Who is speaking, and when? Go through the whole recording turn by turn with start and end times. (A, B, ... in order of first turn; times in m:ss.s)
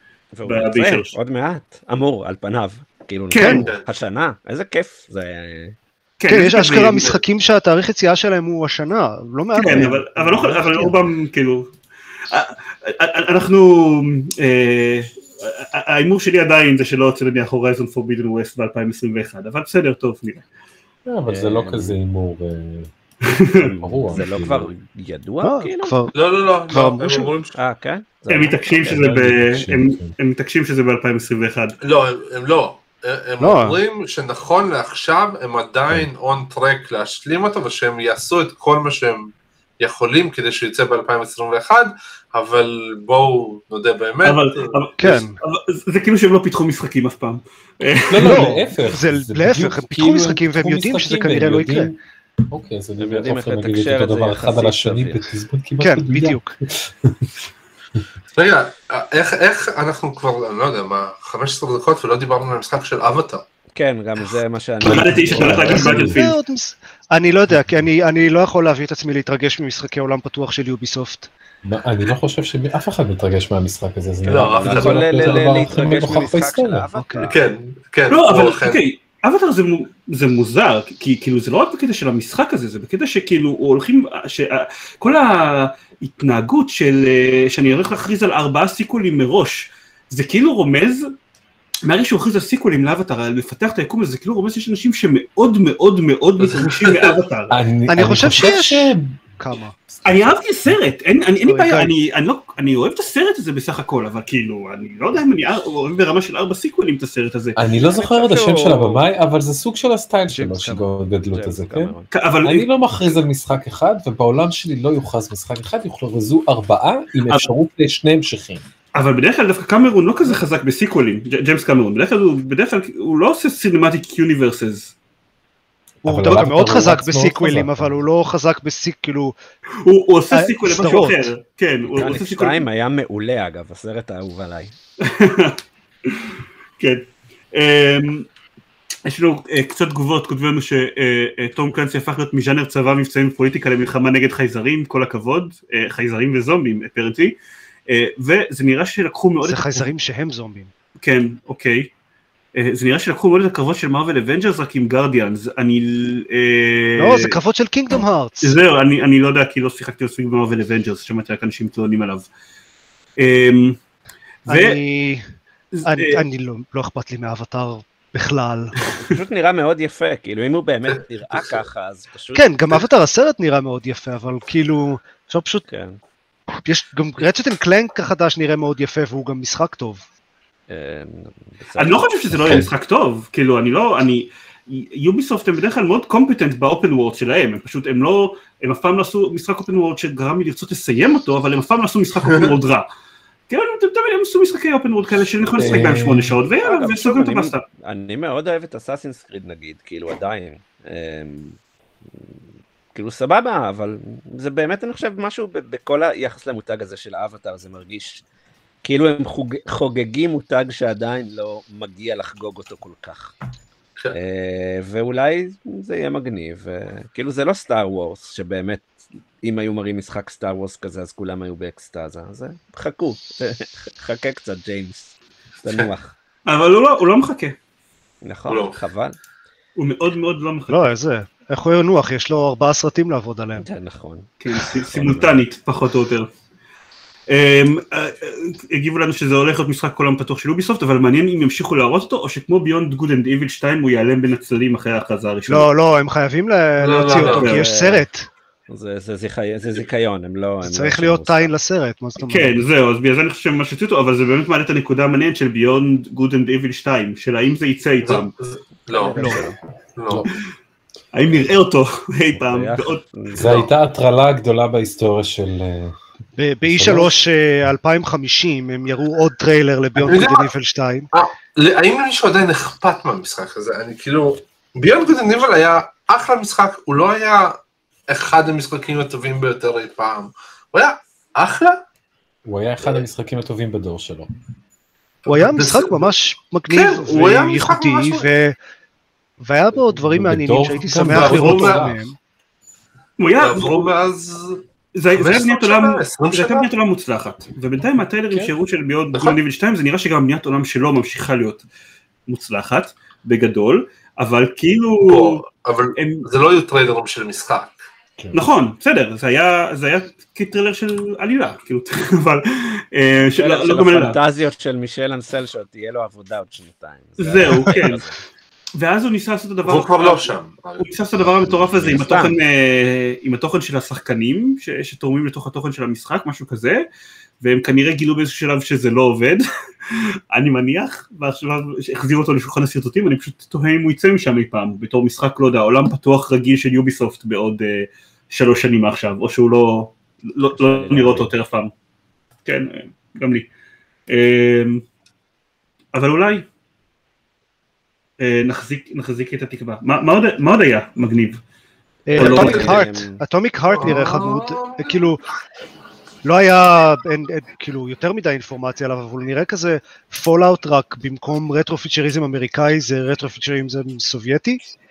0:00.3-0:05.8 A
0:00.4-0:01.1 B
0:03.3-0:03.6 B
0:03.4-0:03.7 C
0:03.5-0:03.9 D
0:06.2-0:07.1 B
0:06.3-0:11.0 C
0:06.8-0:07.1 D
0:09.5-0:11.7 B
0:12.3-0:20.4 B
0:21.0-0:22.9 E
0:21.3-0:22.0 A
0:23.2-0:23.6 B
0:23.5-0:26.0 A
0:23.8-0:24.7 E
0:25.4-0:26.1 C
0:26.1-0:27.6 D
0:26.7-0:27.3 C
0:27.5-0:29.1 A
0:28.3-0:31.8 B
0:28.8-0:30.1 E
0:31.8-0:44.8 D
0:33.4-0:33.8 C
0:44.2-0:48.5 B
0:45.0-0:45.3 C
0:48.1-0:52.0 E
0:48.2-0:51.9 C
0:52.5-0:57.3 E
0:53.0-0:55.2 A
0:55.8-0:56.5 C
0:58.4-1:03.4 D
1:03.8-1:06.1 A
1:04.8-1:06.4 B
1:04.8-1:06.2 E
1:05.7-1:11.3 C
1:11.6-1:16.8 E
1:14.2-1:15.3 D
1:14.5-1:17.4 A
1:17.0-1:17.2 C
1:17.2-1:18.8 D
1:18.1-1:31.1 B
1:31.8-1:37.6 B
1:36.4-1:37.2 D
1:37.5-1:39.2 E
1:37.9-1:39.7 C
1:39.9-1:40.3 E
1:40.0-1:47.6 B
1:41.4-1:41.9 C
1:47.6-1:58.6 E
1:47.7-1:49.0 A
1:50.3-1:50.9 C
1:51.3-1:52.1 A
1:52.1-1:52.7 B
1:58.9-2:04.9 B
2:06.0-2:08.0 E
2:06.0-2:09.3 C
2:09.8-2:12.6 B
2:10.3-2:11.3 C
2:11.9-2:14.7 A
2:15.0-2:18.3 B
2:19.0-2:27.4 B
2:27.9-2:29.8 B
2:29.4-2:30.7 C
2:31.0-2:31.9 B
2:32.5-2:37.4 B
2:37.0-2:38.6 C
2:38.4-2:42.3 B
2:43.2-2:43.8 B
2:44.4-2:44.8 B
2:44.5-2:45.2 C
2:45.7-2:46.2 B
2:45.8-2:48.8 C
2:49.0-2:52.8 A
2:52.3-2:55.6 C
2:55.7-2:56.0 A
2:56.6-3:00.0 C
3:00.7-3:02.6 A
3:01.8-3:12.9 B
3:12.3-3:12.5 D
3:13.5-3:17.6 B
3:15.6-3:16.4 E
3:15.6-3:15.9 A
3:16.6-3:21.6 A
3:22.9-3:28.2 A
3:28.8-3:33.3 A
3:34.1-3:38.9 A
3:39.4-3:46.1 A
3:46.4-3:47.6 B
3:48.2-3:49.2 A
3:48.5-3:48.8 D
3:49.8-3:50.9 B
3:50.7-3:53.6 C
3:53.6-3:55.4 A
3:54.4-3:56.3 B
3:57.3-4:05.7 B
4:05.5-4:08.3 C
4:06.8-4:07.7 D
4:07.0-4:07.7 B
4:07.3-4:08.0 A
4:08.7-4:11.5 A
4:10.6-4:12.6 C
4:12.2-4:18.3 B
4:18.0-4:20.3 D
4:18.9-4:19.6 A
4:19.2-4:19.5 C
4:21.1-4:23.0 B
4:22.3-4:23.7 A
4:23.3-4:26.0 E
4:26.4-4:31.1 C
4:26.7-4:27.1 E
4:30.0-4:30.5 D
4:31.1-4:41.8 D
4:42.4-4:44.3 E
4:45.2-4:46.1 D
4:45.3-4:48.6 C
4:46.7-4:48.3 D
4:49.4-4:52.2 C
4:49.8-4:52.0 E
4:51.0-4:51.9 D
4:53.2-4:53.9 B
4:53.3-4:54.6 D
4:54.9-5:01.6 B
4:55.1-4:56.7 D
5:02.3-5:05.4 B
5:05.0-5:07.8 D
5:06.0-5:06.2 B
5:08.3-5:14.2 B
5:13.4-5:18.2 A
5:17.2-5:18.0 B
5:18.8-5:26.8 B
5:19.6-5:20.9 D
5:21.7-5:22.0 E
5:21.9-5:22.3 A
5:27.4-5:41.7 B
5:40.6-5:41.3 A
5:42.4-5:43.5 B
5:44.1-5:44.8 B
5:45.9-5:46.5 B
5:48.2-5:51.4 B
5:52.1-5:55.2 C
5:52.1-5:53.2 A
5:52.2-5:52.8 B
5:52.2-5:52.8 D
5:53.7-5:55.2 D
5:56.2-6:04.6 C